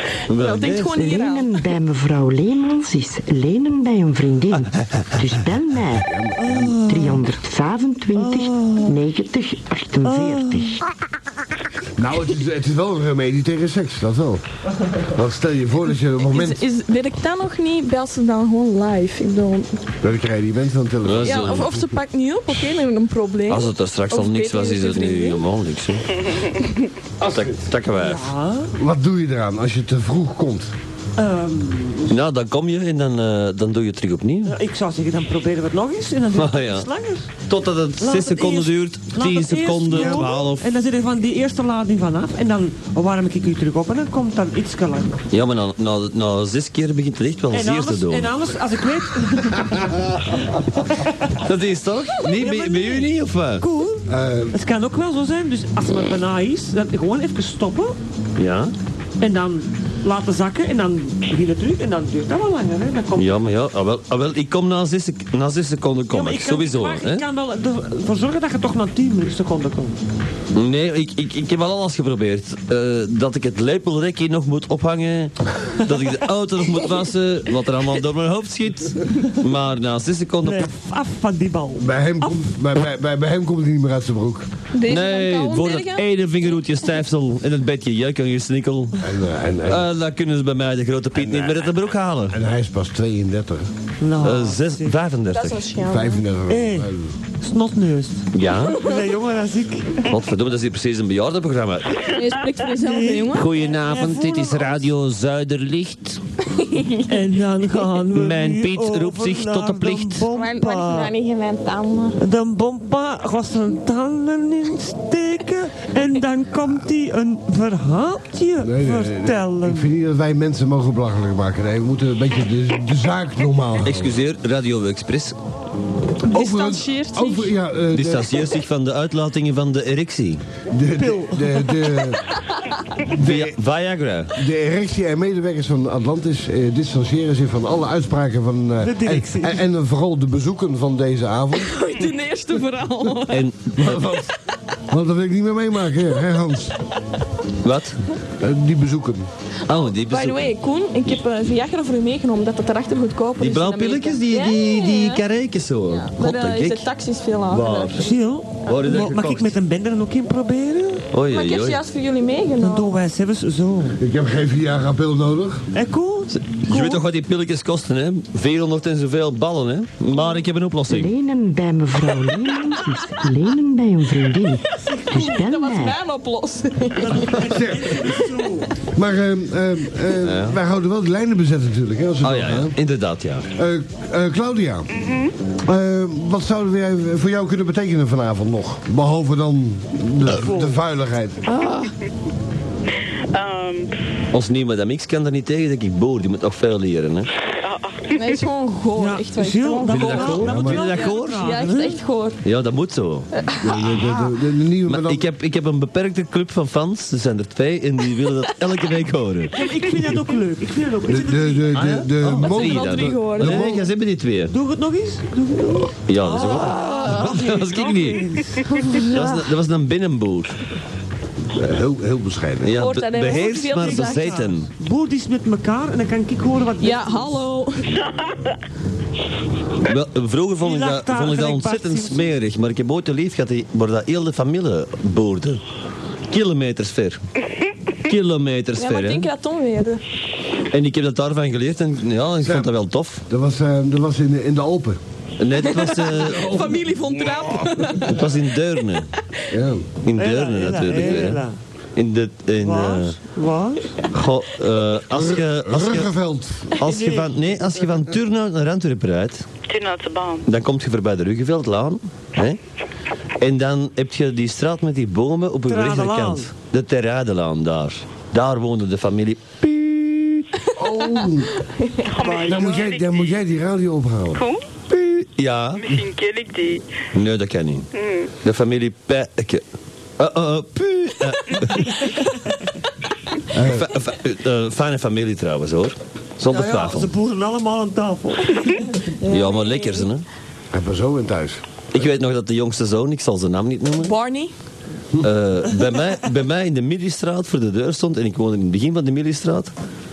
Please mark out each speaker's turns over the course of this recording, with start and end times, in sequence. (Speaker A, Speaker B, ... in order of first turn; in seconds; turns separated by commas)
Speaker A: 0.3-1.5, Speaker B: 0.3-1.0, Speaker C: 0.9-6.1, Speaker D: 6.0-6.8, Speaker E: 6.4-7.3, Speaker C: 6.8-10.8, Speaker E: 8.1-9.0, Speaker E: 10.0-10.8, Speaker D: 12.0-14.4, Speaker D: 15.0-16.6, Speaker A: 16.2-19.8, Speaker D: 20.0-21.8, Speaker B: 21.0-21.8, Speaker A: 21.2-25.4, Speaker B: 23.5-26.2, Speaker D: 27.2-27.6, Speaker B: 27.3-28.3, Speaker E: 28.0-28.7, Speaker D: 28.8-30.7, Speaker E: 31.2-32.1, Speaker B: 32.1-34.5, Speaker E: 34.5-37.3, Speaker B: 36.3-36.9, Speaker B: 37.5-40.7, Speaker E: 38.0-45.1, Speaker D: 39.9-40.3, Speaker B: 45.3-48.3, Speaker E: 47.5-49.8, Speaker E: 50.9-51.4, Speaker B: 51.4-53.7, Speaker E: 52.2-58.0, Speaker D: 54.0-54.5, Speaker B: 58.4-58.7, Speaker E: 59.2-63.3, Speaker B: 63.1-67.2, Speaker E: 66.1-70.0, Speaker B: 70.5-80.7, Speaker E: 80.4-82.4, Speaker D: 81.8-84.5, Speaker A: 84.7-86.6, Speaker B: 84.9-89.0, Speaker D: 89.0-89.9, Speaker B: 89.7-92.4, Speaker D: 91.2-91.5, Speaker D: 92.3-93.7, Speaker E: 94.0-94.9, Speaker B: 94.2-95.7, Speaker A: 95.3-96.2, Speaker D: 95.8-97.1, Speaker E: 96.5-96.9, Speaker E: 97.4-100.0, Speaker B: 98.3-98.8, Speaker B: 100.0-102.0, Speaker A: 102.0-103.5, Speaker E: 102.8-104.8, Speaker B: 103.3-106.2, Speaker A: 106.6-107.1, Speaker E: 107.1-111.1, Speaker B: 108.1-110.2, Speaker A: 110.3-112.2, Speaker E: 112.2-119.9, Speaker D: 118.6-124.2, Speaker B: 123.8-125.3, Speaker A: 126.3-127.5, Speaker D: 126.3-128.4, Speaker B: 127.9-130.4, Speaker D: 130.7-132.2, Speaker E: 131.0-131.6, Speaker D: 133.1-133.6, Speaker B: 133.1-134.3, Speaker D: 134.3-141.7, Speaker E: 138.8-139.6, Speaker A: 141.5-143.4, Speaker B: 143.3-144.2, Speaker D: 143.8-144.3, Speaker D: 144.9-146.7, Speaker B: 147.6-148.0, Speaker D: 148.4-149.3, Speaker B: 149.7-150.5, Speaker A: 150.0-155.2, Speaker B: 153.4-156.9, Speaker A: 155.9-158.1, Speaker B: 157.5-158.1, Speaker E: 158.0-161.0, Speaker B: 158.6-159.5, Speaker B: 161.1-161.8, Speaker A: 161.3-162.9, Speaker E: 162.6-164.0, Speaker D: 164.0-165.6, Speaker E: 165.7-167.0, Speaker B: 166.3-171.1, Speaker C: 170.9-176.0, Speaker E: 174.9-175.4, Speaker A: 174.9-177.4, Speaker E: 176.9-178.7, Speaker D: 177.4-177.9, Speaker D: 178.9-182.7, Speaker B: 180.2-180.6, Speaker B: 182.2-183.5, Speaker D: 183.6-184.9, Speaker F: 185.0-185.3, Speaker D: 185.6-191.4, Speaker E: 190.4-190.8, Speaker A: 191.5-191.9, Speaker F: 193.3-193.9, Speaker B: 194.3-197.3, Speaker F: 197.6-198.0, Speaker A: 198.1-202.4, Speaker E: 199.0-202.0, Speaker B: 199.9-201.6, Speaker D: 200.4-200.8, Speaker B: 202.4-203.3, Speaker A: 203.3-204.0, Speaker D: 203.6-205.2, Speaker B: 204.9-209.6, Speaker E: 209.5-211.8, Speaker D: 211.1-213.8, Speaker B: 211.7-214.5, Speaker A: 212.4-213.6, Speaker E: 214.5-219.1, Speaker B: 216.1-218.5, Speaker A: 216.5-217.3, Speaker A: 218.8-219.2, Speaker B: 219.0-220.6, Speaker D: 221.5-222.7, Speaker B: 222.6-224.7, Speaker A: 222.8-224.3, Speaker E: 223.3-227.4, Speaker A: 226.8-227.9, Speaker B: 229.8-235.6, Speaker E: 230.6-232.3, Speaker B: 236.3-237.2, Speaker B: 238.1-239.3, Speaker A: 238.8-240.0, Speaker B: 240.7-243.2, Speaker D: 242.4-242.7, Speaker D: 243.3-245.0, Speaker B: 245.4-246.7, Speaker A: 245.6-248.3, Speaker D: 246.3-246.8, Speaker B: 248.0-249.1, Speaker D: 249.5-249.9, Speaker B: 250.0-251.4, Speaker E: 250.2-251.6, Speaker B: 251.9-253.2, Speaker E: 252.6-253.9, Speaker B: 254.1-256.1, Speaker D: 255.1-256.8, Speaker B: 256.8-259.4, Speaker E: 256.8-257.5, Speaker F: 259.7-260.4, Speaker B: 260.4-262.6, Speaker B: 263.4-270.5, Speaker E: 265.7-266.5, Speaker D: 270.8-271.5, Speaker A: 271.8-272.1, Speaker F: 272.1-273.4, Speaker E: 272.2-272.7, Speaker D: 272.4-274.4, Speaker F: 274.3-274.6, Speaker B: 274.9-276.0, Speaker F: 275.8-276.8, Speaker B: 277.1-277.9, Speaker F: 277.9-278.3, Speaker B: 278.4-279.6, Speaker B: 280.2-282.1, Speaker D: 283.5-283.9, Speaker B: 283.6-287.1, Speaker E: 286.5-288.9, Speaker A: 289.2-290.1, Speaker B: 289.3-290.2, Speaker D: 290.7-291.6, Speaker B: 291.9-294.1, Speaker A: 294.0-294.5, Speaker B: 295.2-299.7